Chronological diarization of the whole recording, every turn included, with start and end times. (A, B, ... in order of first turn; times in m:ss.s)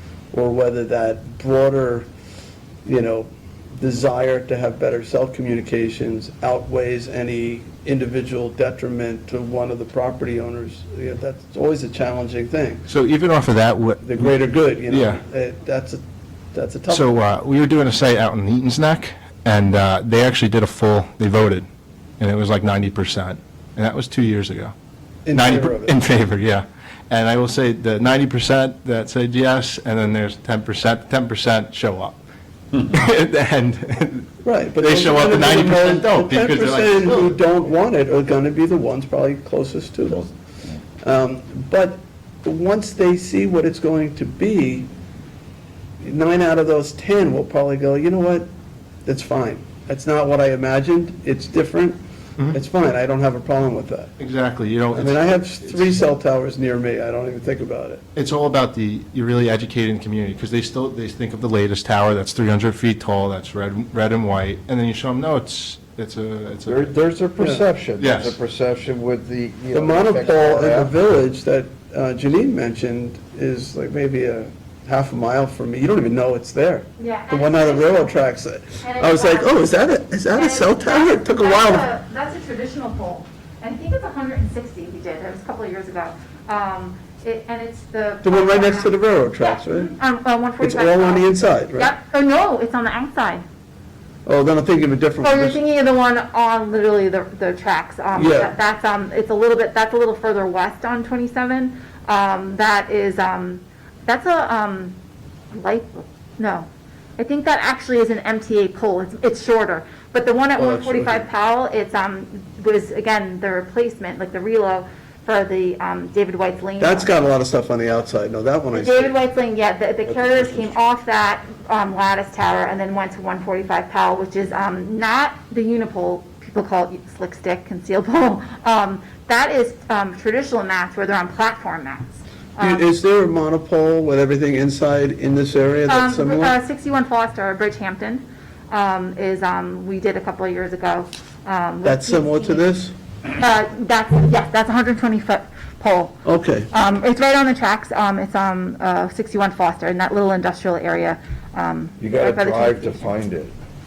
0:00.3-0:02.1 A
0:02.8-0:12.8 A
0:12.9-0:14.3 B
0:14.0-0:16.0 A
0:14.9-0:15.2 B
0:16.5-0:17.1 A
0:16.9-0:21.7 B
0:22.2-0:24.7 B
0:25.2-0:26.0 A
0:25.3-0:32.2 B
0:32.7-0:37.4 B
0:34.4-0:40.3 A
0:41.0-0:44.9 A
0:46.0-0:48.5 A
0:49.0-0:52.0 A
0:52.5-0:54.1 A
0:54.2-0:55.9 B
0:54.9-0:58.0 A
0:58.2-1:06.9 B
1:06.7-1:10.9 C
1:07.4-1:07.6 A
1:08.0-1:08.4 B
1:09.7-1:21.9 A
1:17.0-1:18.2 D
1:18.8-1:19.6 D
1:20.3-1:33.4 D
1:28.2-1:29.9 A
1:30.6-1:31.9 A
1:34.2-1:35.6 A
1:35.2-1:45.0 D
1:38.2-1:38.5 A
1:45.5-1:57.1 D
1:50.6-1:51.2 A
1:56.8-1:59.2 A
1:58.7-2:12.8 D
2:00.1-2:00.8 A
2:12.6-2:16.6 A
2:15.9-2:22.6 D
2:21.8-2:22.9 A
2:23.3-2:33.1 D
2:26.2-2:26.7 A
2:32.0-2:33.5 C